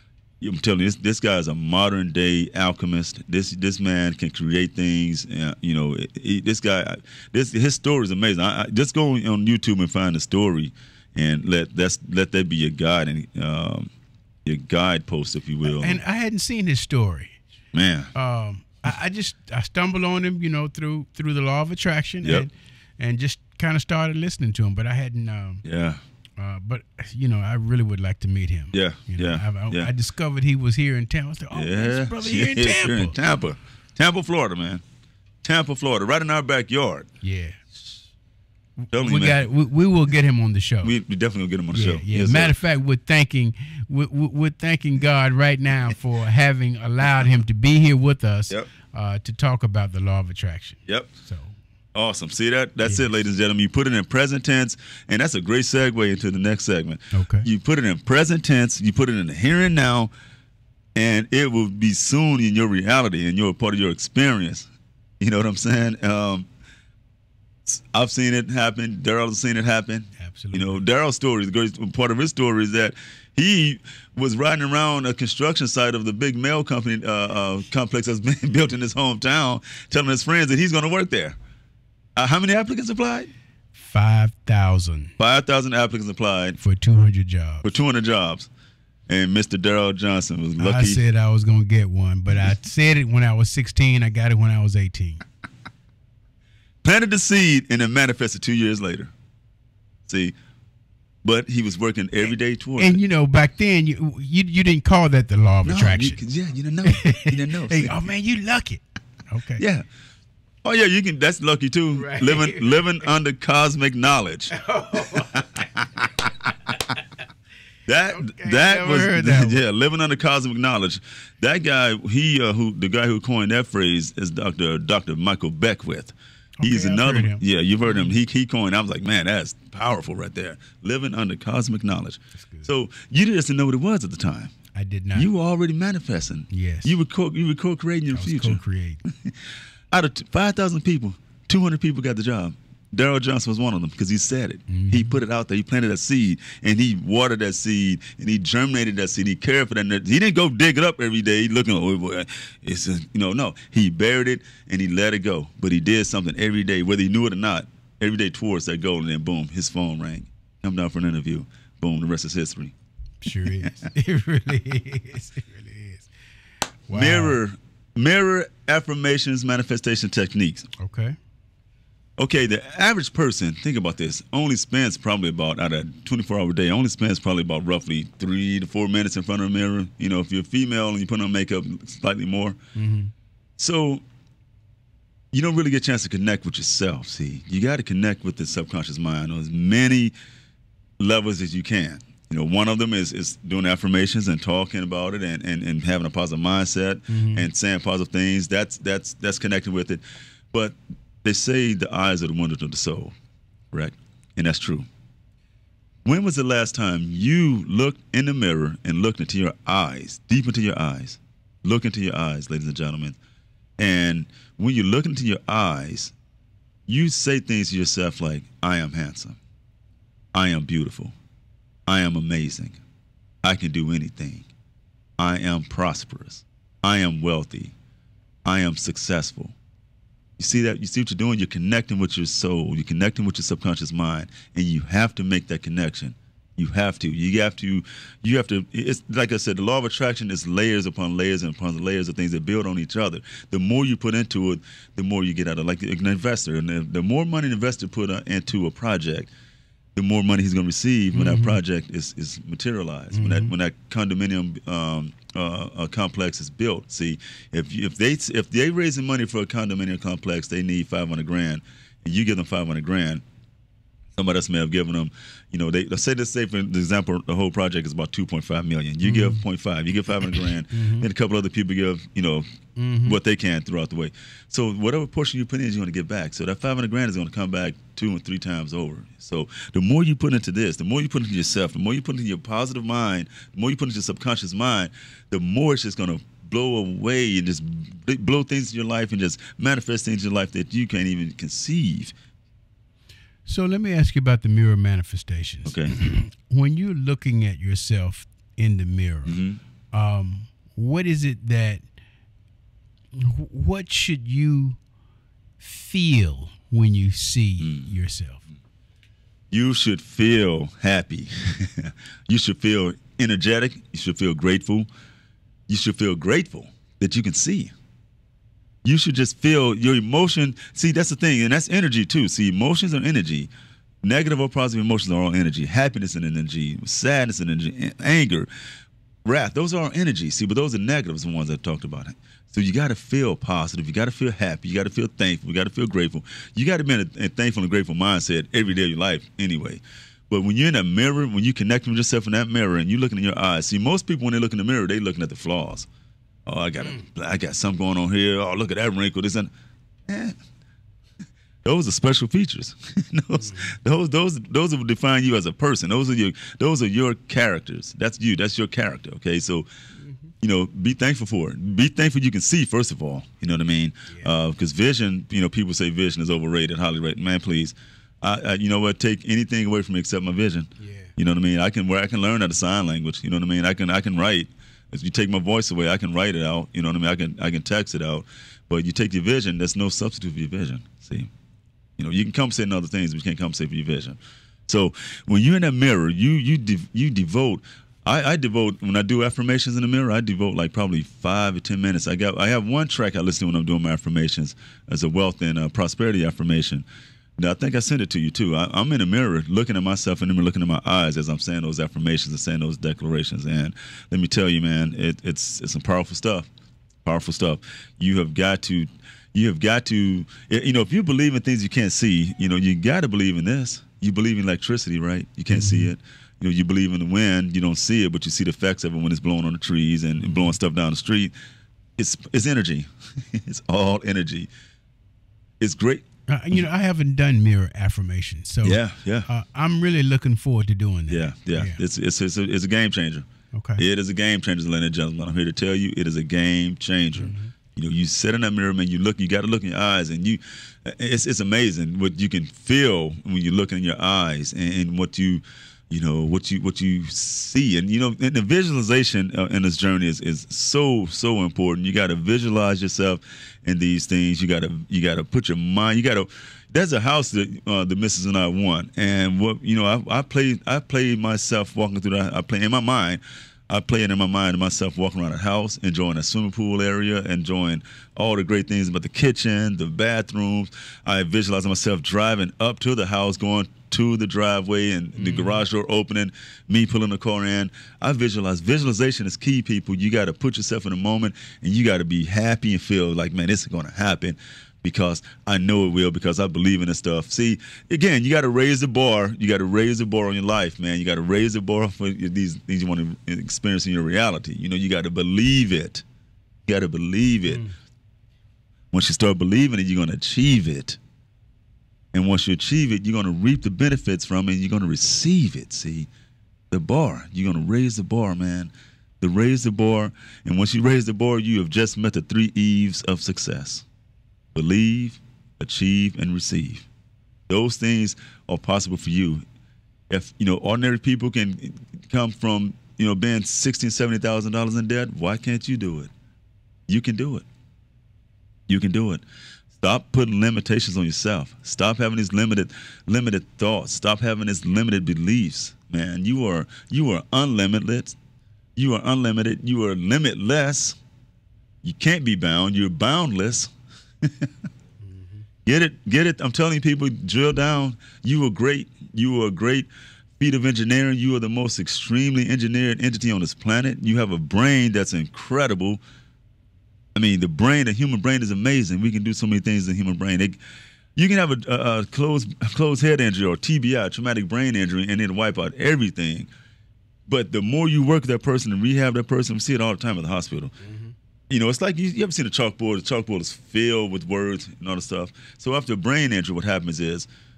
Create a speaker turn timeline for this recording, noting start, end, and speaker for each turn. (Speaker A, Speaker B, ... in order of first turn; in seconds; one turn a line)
Speaker A: 0.4-13.9
Speaker A: 14.4-16.0
Speaker B: 15.7-17.4
Speaker A: 17.7-18.1
Speaker B: 18.1-25.6
Speaker A: 22.2-22.5
Speaker A: 25.6-26.0
Speaker B: 26.4-33.2
Speaker A: 28.7-29.9
Speaker A: 31.5-34.8
Speaker A: 35.4-37.1
Speaker B: 37.2-37.6
Speaker B: 38.8-40.9
Speaker A: 38.9-39.5
Speaker A: 40.8-42.5
Speaker B: 41.7-51.5
Speaker A: 51.9-60.1
Speaker B: 57.1-57.5
Speaker A: 60.9-64.7
Speaker A: 65.2-66.5
Speaker A: 67.7-81.4
Speaker B: 70.2-70.8
Speaker A: 82.2-83.3
Speaker B: 83.7-85.1
Speaker A: 85.2-86.6
Speaker B: 86.6-87.7
Speaker A: 87.6-88.5
Speaker A: 89.1-91.0
Speaker B: 90.6-95.2
Speaker A: 96.8-99.1
Speaker A: 100.1-100.3
Speaker A: 101.2-103.0
Speaker B: 102.8-106.2
Speaker A: 105.6-108.0
Speaker B: 106.8-109.6
Speaker A: 109.6-109.8
Speaker A: 110.6-115.8
Speaker B: 111.9-112.9
Speaker B: 114.5-115.6
Speaker A: 117.9-134.5
Speaker B: 118.1-119.6
Speaker B: 126.6-128.2
Speaker B: 132.3-132.7
Speaker B: 134.7-135.3
Speaker A: 135.1-139.3
Speaker B: 136.5-137.0
Speaker B: 138.1-139.0
Speaker A: 139.9-162.7
Speaker B: 144.7-145.1
Speaker B: 163.2-166.1
Speaker A: 163.4-163.7
Speaker B: 166.9-167.4
Speaker A: 166.9-170.7
Speaker B: 170.8-171.2
Speaker A: 172.2-182.6
Speaker B: 182.7-183.1
Speaker A: 183.6-184.0
Speaker A: 185.3-190.1
Speaker A: 191.0-203.1
Speaker B: 197.1-197.5
Speaker A: 203.7-204.9
Speaker A: 206.0-213.2
Speaker A: 213.8-216.1
Speaker A: 216.9-219.4
Speaker A: 220.3-221.1
Speaker A: 221.9-222.8
Speaker A: 223.4-224.5
Speaker A: 225.2-227.7
Speaker A: 228.4-229.5
Speaker A: 230.4-249.3
Speaker A: 249.9-263.2
Speaker B: 251.1-251.6
Speaker B: 253.1-253.5
Speaker A: 264.1-272.5
Speaker B: 269.0-269.4
Speaker B: 270.7-271.1
Speaker B: 272.8-273.2
Speaker A: 273.0-292.1
Speaker B: 293.4-299.4
Speaker A: 295.6-296.0
Speaker A: 299.2-299.6
Speaker B: 299.9-301.8
Speaker B: 303.1-304.8
Speaker B: 305.6-308.4
Speaker A: 307.6-307.9
Speaker A: 309.5-314.9
Speaker A: 315.7-317.7
Speaker A: 318.8-323.5
Speaker A: 324.0-328.5
Speaker A: 329.2-345.9
Speaker A: 346.4-349.5
Speaker B: 346.8-347.1
Speaker A: 350.1-350.4
Speaker A: 351.6-359.7
Speaker B: 353.3-353.8
Speaker B: 359.9-360.3
Speaker A: 360.4-381.3
Speaker B: 370.8-371.1
Speaker A: 382.0-396.9
Speaker A: 397.4-406.5
Speaker A: 407.0-421.3
Speaker B: 415.5-415.9
Speaker B: 420.2-420.5
Speaker A: 422.0-424.5
Speaker A: 425.6-426.6
Speaker B: 426.3-431.8
Speaker A: 428.6-429.3
Speaker A: 431.1-496.0
Speaker B: 433.5-433.8
Speaker B: 437.1-437.5
Speaker B: 475.1-475.6
Speaker A: 496.6-497.6
Speaker B: 497.4-497.7
Speaker A: 498.9-501.0
Speaker A: 502.1-506.1
Speaker A: 506.7-513.8
Speaker A: 514.5-516.9
Speaker A: 517.5-519.4
Speaker A: 520.1-526.1
Speaker A: 526.9-527.5
Speaker A: 528.7-529.2
Speaker A: 529.8-538.1
Speaker A: 538.8-541.0
Speaker A: 541.8-543.7
Speaker A: 544.2-544.5
Speaker B: 545.0-545.5
Speaker A: 545.6-556.0
Speaker A: 557.1-560.6
Speaker A: 561.1-566.5
Speaker A: 567.3-570.7
Speaker B: 570.8-571.1
Speaker A: 571.5-577.3